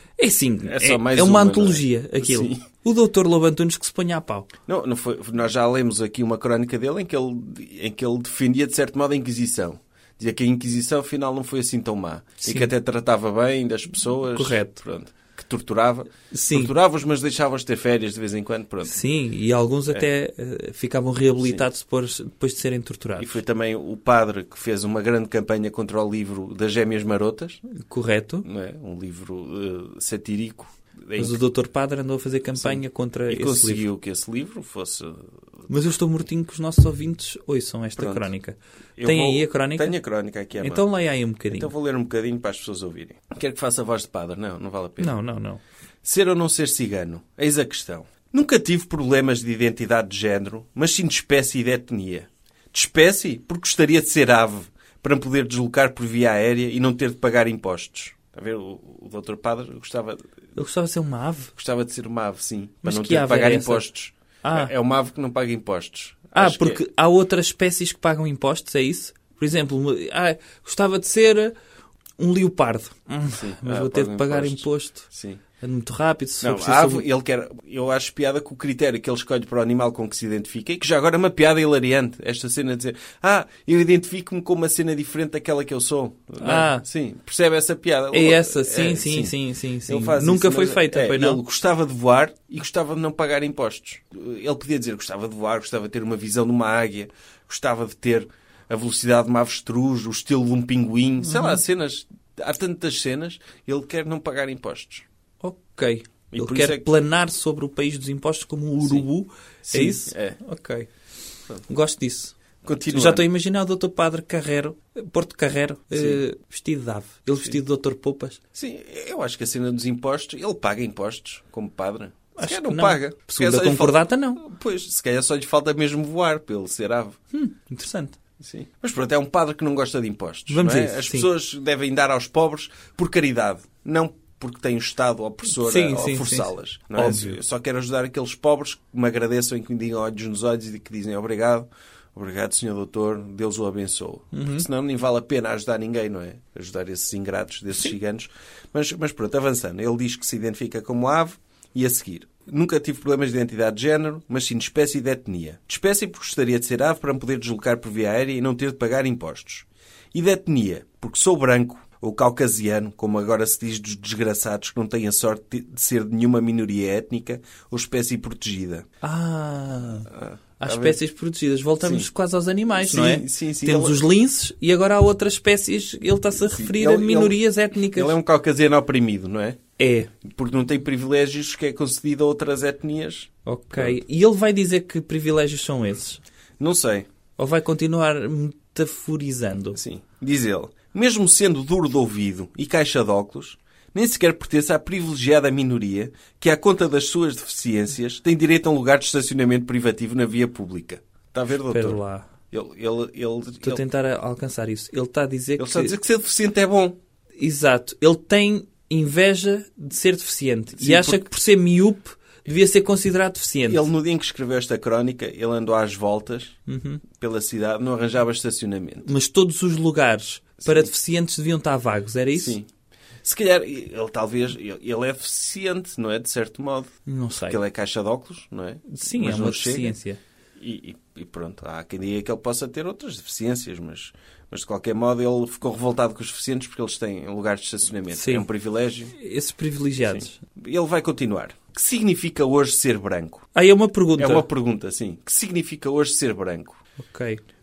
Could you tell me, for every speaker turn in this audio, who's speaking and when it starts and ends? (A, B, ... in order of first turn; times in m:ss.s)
0:00.2-0:04.5 A
0:00.6-0:02.6 B
0:04.7-0:19.0 B
0:12.4-0:12.7 A
0:14.2-0:14.8 A
0:16.3-0:16.7 A
0:18.8-0:23.4 A
0:23.2-0:27.6 B
0:27.7-0:28.5 A
0:28.4-0:31.4 B
0:31.2-0:33.8 A
0:32.6-0:35.3 B
0:35.7-0:40.0 A
0:38.0-0:38.3 B
0:39.0-0:40.9 B
0:40.6-0:41.7 A
0:41.5-0:45.2 B
0:45.0-0:45.6 A
0:46.0-1:00.2 B
1:00.6-1:01.5 A
1:01.6-1:06.8 B
1:02.8-1:03.9 A
1:04.4-1:04.7 A
1:06.4-1:11.5 A
1:12.2-1:15.1 A
1:13.3-1:15.4 B
1:15.6-1:17.0 A
1:16.4-1:45.0 B
1:26.4-1:26.8 A
1:28.1-1:31.4 A
1:41.2-1:41.6 A
1:45.4-1:50.9 A
1:46.3-1:46.9 B
1:48.8-1:49.1 B
1:49.6-1:50.4 B
1:51.7-1:52.4 A
1:52.6-1:53.3 B
1:52.9-1:58.4 A
1:55.9-1:56.2 B
1:58.5-2:07.2 B
2:02.4-2:04.4 A
2:07.3-2:08.2 A
2:08.4-2:48.9 B
2:10.5-2:11.3 A
2:15.5-2:17.4 A
2:24.3-2:24.7 A
2:49.0-2:58.2 A
2:50.1-2:51.0 B
2:51.8-2:52.1 B
2:52.7-2:54.0 B
2:56.4-2:57.4 B
2:57.9-2:59.6 B
2:59.8-3:00.1 A
3:00.2-3:04.0 B
3:03.5-3:06.2 A
3:06.6-3:07.1 B
3:07.4-3:09.8 A
3:09.8-3:22.0 B
3:21.7-3:22.3 A
3:22.5-3:23.8 B
3:23.6-3:26.0 A
3:25.6-3:27.0 B
3:27.4-3:33.8 A
3:30.8-3:31.3 B
3:33.7-3:36.6 B
3:36.7-3:37.0 A
3:37.1-3:39.1 B
3:39.0-3:42.6 A
3:40.6-3:40.9 B
3:42.4-3:42.7 B
3:43.2-3:46.9 B
3:47.1-3:47.6 A
3:47.4-3:50.0 B
3:48.9-3:50.2 A
3:50.6-3:59.1 B
3:58.1-3:58.5 A
3:59.1-4:00.4 A
4:00.0-4:03.5 B
4:03.5-4:04.5 A
4:04.2-4:06.8 B
4:07.0-4:07.4 A